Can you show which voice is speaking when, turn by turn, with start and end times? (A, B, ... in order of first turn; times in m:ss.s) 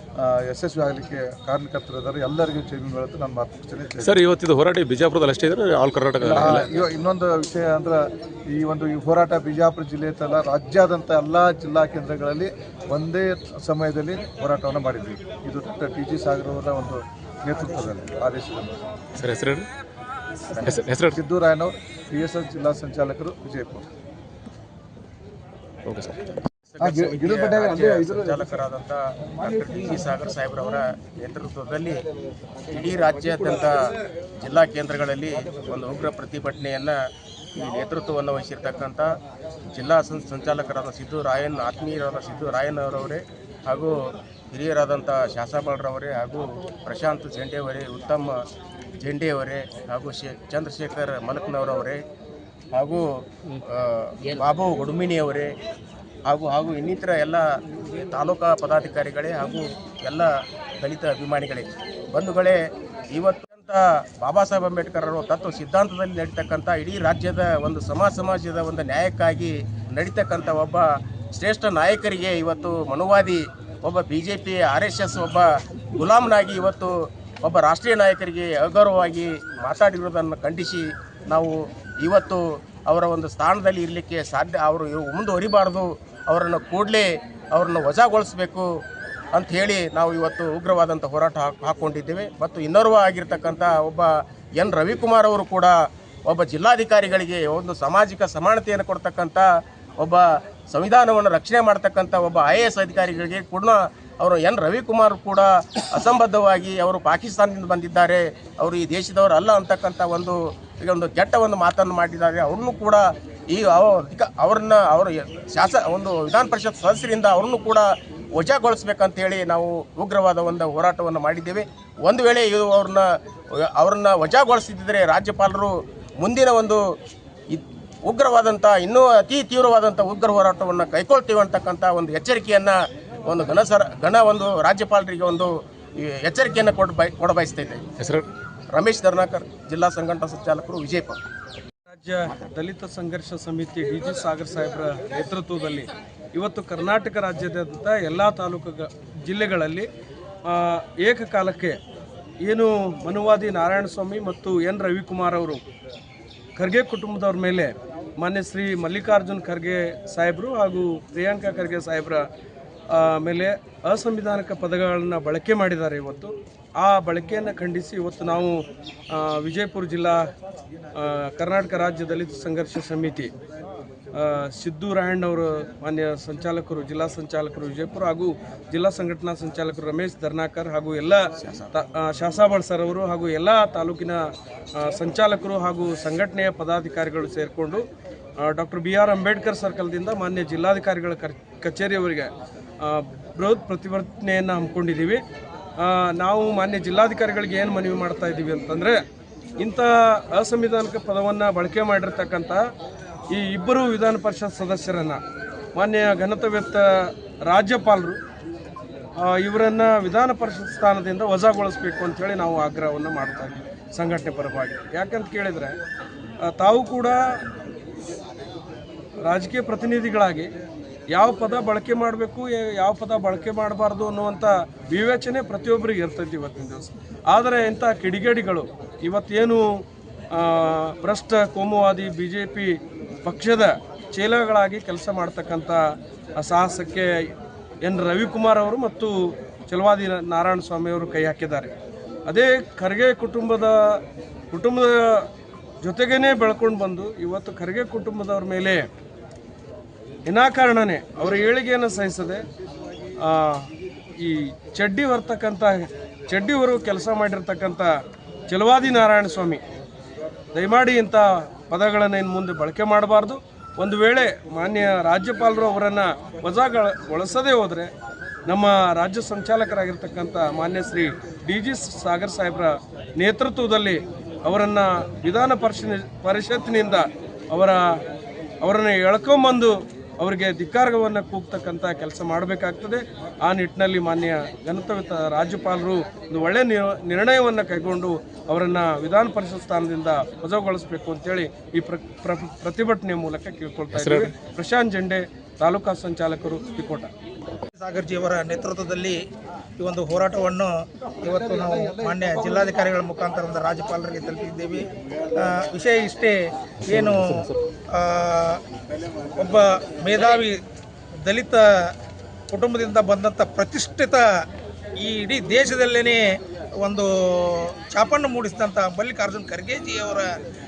0:00.2-0:04.2 A
0:04.0-0:06.7 B
0:06.2-0:18.8 A
0:19.2-0:19.7 B
0:20.6-0:21.2 B
0:21.1-0:23.8 A
0:25.9-0:26.3 B
0:26.7-0:32.0 C
0:26.8-0:28.4 A
0:32.7-0:37.0 C
0:37.6-0:39.1 C
0:39.7-0:44.0 C
0:44.5-0:48.4 C
0:49.0-0:52.0 C
0:52.7-0:55.5 C
0:56.3-0:57.4 C
0:58.1-1:02.6 C
1:03.1-1:16.9 C
1:17.4-1:28.8 C
1:29.3-1:35.7 C
1:36.3-1:39.5 C
1:40.0-2:03.1 C
2:03.6-2:06.8 C
2:07.5-2:17.9 C
2:18.0-2:18.3 B
2:18.7-2:21.2 C
2:21.9-2:29.9 D
2:30.4-2:31.8 D
2:32.4-2:35.6 D
2:36.6-2:42.3 D
2:42.9-2:50.3 D
2:51.0-2:53.3 D
2:54.1-3:04.2 D
3:01.4-3:01.7 C
3:04.8-3:07.8 D
3:08.4-3:15.2 D
3:15.8-3:19.0 D
3:19.6-3:22.6 D
3:23.3-3:25.2 D
3:25.8-3:28.2 D
3:29.2-3:35.8 D
3:36.4-3:37.4 D
3:39.3-3:40.5 D
3:41.1-3:55.8 D
3:56.4-4:01.7 D
4:02.3-4:05.3 D
4:05.8-4:08.9 D
4:10.3-4:12.4 D
4:13.2-4:17.9 D
4:18.5-4:19.6 D
4:20.5-4:27.9 D
4:28.5-4:38.0 D
4:38.6-4:57.1 D
4:53.9-4:54.4 B
4:57.8-4:59.2 E
4:59.8-5:06.4 E
5:02.1-5:02.4 A
5:06.9-5:07.6 B
5:06.9-5:08.6 E
5:09.4-5:10.6 E
5:11.2-5:11.9 E
5:12.5-5:14.2 E
5:15.0-5:16.2 E
5:16.8-5:20.3 E